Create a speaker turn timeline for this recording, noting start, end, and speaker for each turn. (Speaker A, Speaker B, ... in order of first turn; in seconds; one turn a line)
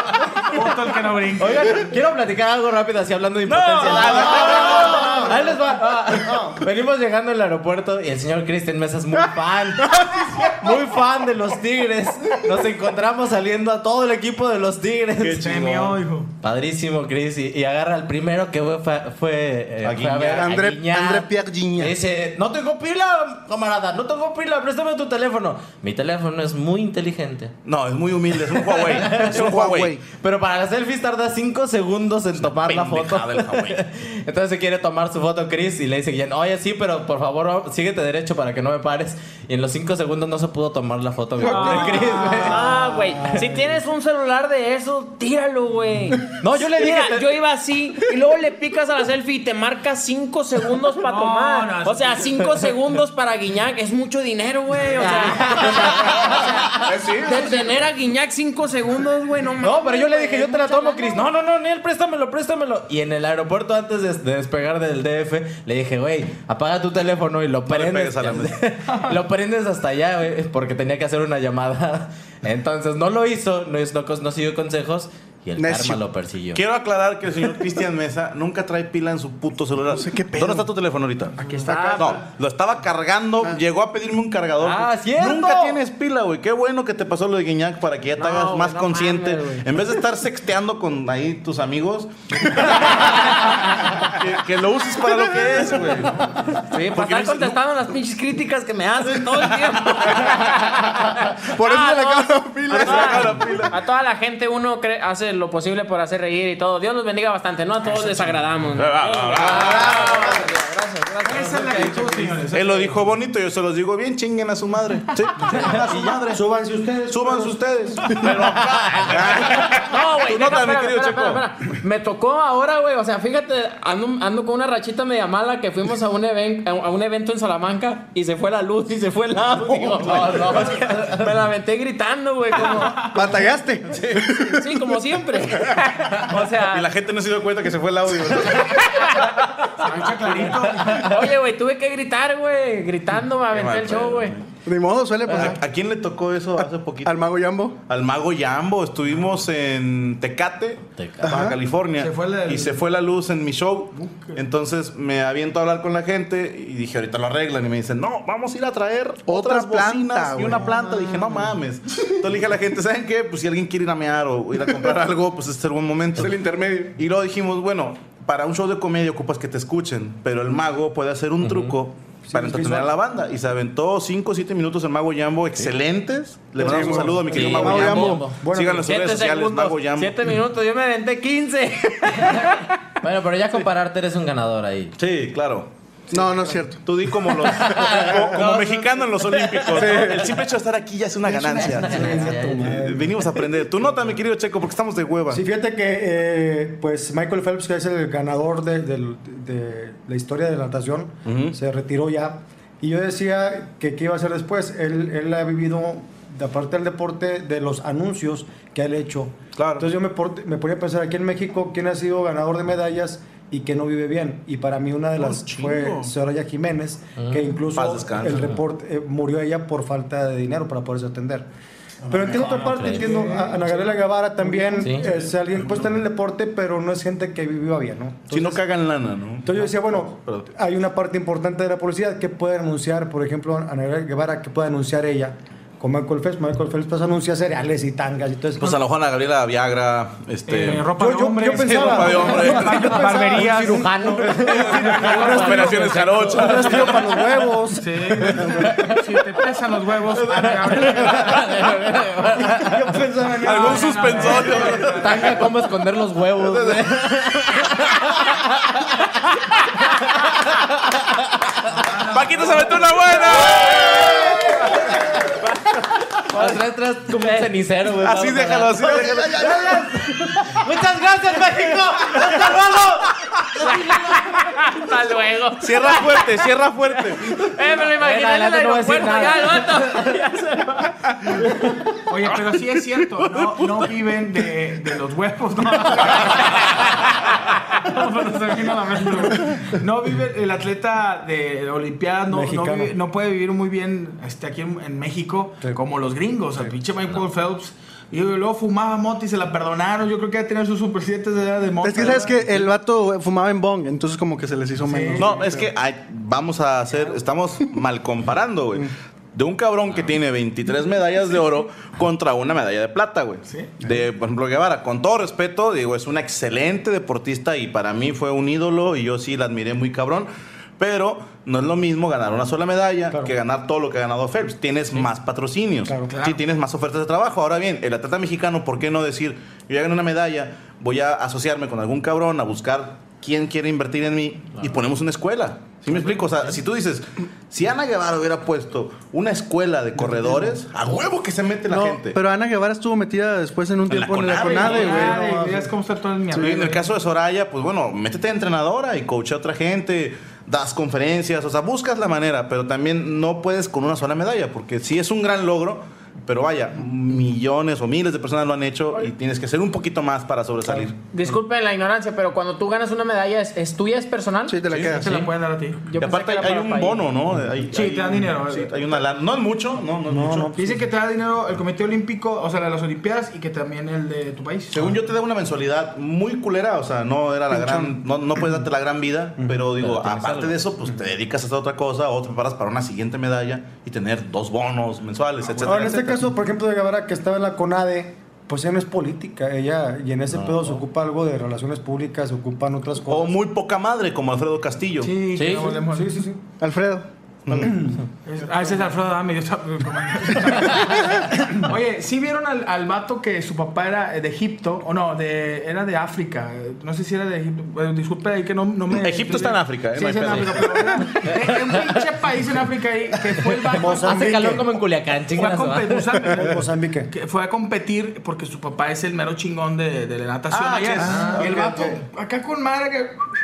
Speaker A: 0.5-1.9
Speaker B: 1.4-15.5
Speaker C: 3.5-5.3
Speaker D: 4.1-5.5
Speaker D: 6.0-6.6
Speaker E: 10.2-10.5
Speaker C: 15.2-16.0
Speaker A: 15.4-16.3
Speaker B: 16.4-27.5
Speaker C: 19.8-20.5
Speaker E: 20.3-21.9
Speaker C: 27.6-30.0
Speaker B: 28.5-29.5
Speaker E: 29.1-30.0
Speaker B: 30.2-42.8
Speaker C: 32.4-33.8
Speaker A: 41.4-42.5
Speaker F: 41.5-61.2
Speaker B: 46.4-47.4
Speaker A: 51.0-52.4
Speaker B: 54.9-56.9
Speaker C: 56.9-57.5
Speaker B: 59.6-76.6
Speaker C: 67.7-68.6
Speaker E: 75.6-76.0
Speaker C: 76.5-93.4
Speaker E: 79.9-80.7
Speaker E: 81.4-82.2
Speaker F: 81.4-82.2
Speaker B: 84.6-85.8
Speaker F: 88.2-89.8
Speaker C: 93.9-97.6
Speaker F: 96.6-112.0
Speaker C: 99.1-100.4
Speaker E: 101.5-103.5
Speaker C: 102.7-103.8
Speaker C: 108.8-110.3
Speaker B: 109.4-110.3
Speaker A: 111.2-113.0
Speaker B: 111.2-112.3
Speaker C: 112.5-116.4
Speaker B: 115.4-115.9
Speaker D: 116.3-118.3
Speaker C: 117.1-121.4
Speaker B: 118.5-119.5
Speaker F: 119.7-133.2
Speaker B: 129.3-131.4
Speaker C: 129.9-130.6
Speaker E: 133.1-135.0
Speaker F: 134.4-136.9
Speaker C: 136.7-139.1
Speaker F: 138.5-144.3
Speaker A: 139.8-141.1
Speaker C: 143.5-144.5
Speaker E: 144.6-145.6
Speaker C: 145.2-147.2
Speaker E: 146.6-147.8
Speaker C: 147.9-180.2
Speaker B: 151.0-151.3
Speaker E: 151.2-151.6
Speaker A: 152.0-152.8
Speaker A: 153.9-154.4
Speaker E: 159.3-161.5
Speaker E: 166.2-166.9
Speaker B: 171.4-171.7
Speaker D: 172.3-172.9
Speaker E: 176.6-178.2
Speaker D: 176.6-178.9
Speaker B: 177.3-178.4
Speaker F: 178.8-182.7
Speaker B: 182.2-184.9
Speaker C: 185.0-185.7
Speaker E: 186.1-187.3
Speaker C: 186.8-195.4
Speaker B: 187.5-189.9
Speaker E: 189.7-190.3
Speaker B: 191.4-192.7
Speaker D: 191.8-193.2
Speaker D: 195.3-221.5
Speaker C: 201.2-201.6
Speaker C: 209.6-209.9
Speaker C: 215.2-216.1
Speaker B: 217.2-217.5
Speaker C: 217.7-218.5
Speaker D: 222.1-228.6
Speaker B: 222.4-223.2
Speaker A: 222.5-223.8
Speaker B: 224.8-225.1
Speaker C: 228.3-230.5
Speaker D: 229.4-238.8
Speaker C: 238.6-240.9
Speaker A: 240.5-243.9
Speaker D: 240.7-248.7
Speaker C: 241.5-243.1
Speaker B: 243.2-247.0
Speaker C: 244.5-247.3
Speaker A: 247.8-251.5
Speaker C: 248.2-248.6
Speaker B: 250.3-252.9
Speaker D: 252.3-254.7
Speaker C: 253.4-255.5
Speaker A: 253.4-255.4
Speaker B: 255.0-259.0
Speaker C: 256.4-256.9
Speaker A: 261.8-263.1
Speaker C: 262.1-264.9
Speaker B: 263.5-264.7
Speaker F: 265.4-265.7
Speaker B: 266.3-274.0
Speaker F: 267.2-267.5
Speaker C: 268.0-270.3
Speaker C: 272.1-272.4
Speaker F: 273.6-281.0
Speaker C: 275.6-277.2
Speaker B: 277.9-280.1
Speaker A: 282.1-286.8
Speaker A: 287.8-302.7
Speaker D: 292.3-292.9
Speaker E: 301.8-305.7
Speaker A: 304.8-305.4
Speaker C: 305.1-342.2
Speaker A: 313.4-313.8
Speaker D: 325.9-326.1
Speaker A: 326.1-326.4
Speaker E: 341.7-345.2
Speaker C: 343.9-345.0
Speaker A: 344.4-346.8
Speaker D: 344.7-345.7
Speaker C: 346.4-361.0
Speaker F: 361.1-364.7
Speaker E: 364.5-365.2
Speaker C: 364.7-365.0
Speaker A: 364.9-365.9
Speaker B: 364.9-365.2
Speaker F: 365.8-367.1
Speaker C: 365.9-370.5
Speaker A: 367.7-369.0
Speaker D: 370.1-370.9
Speaker A: 370.5-374.9
Speaker C: 374.7-386.2
Speaker E: 377.5-377.9
Speaker B: 379.8-380.6
Speaker A: 385.5-386.1
Speaker D: 385.6-393.4
Speaker B: 390.3-390.8
Speaker C: 393.1-395.1
Speaker A: 395.0-396.3
Speaker B: 395.4-395.7
Speaker D: 395.7-396.4
Speaker E: 396.6-397.1
Speaker C: 397.4-397.8
Speaker D: 397.5-398.0
Speaker A: 398.2-401.0
Speaker A: 401.5-414.5
Speaker C: 408.9-411.0
Speaker B: 411.3-411.9
Speaker D: 413.7-414.7
Speaker B: 413.9-416.2
Speaker A: 415.3-423.3
Speaker D: 416.3-417.1
Speaker C: 420.5-421.9
Speaker E: 421.0-421.5
Speaker D: 421.4-421.7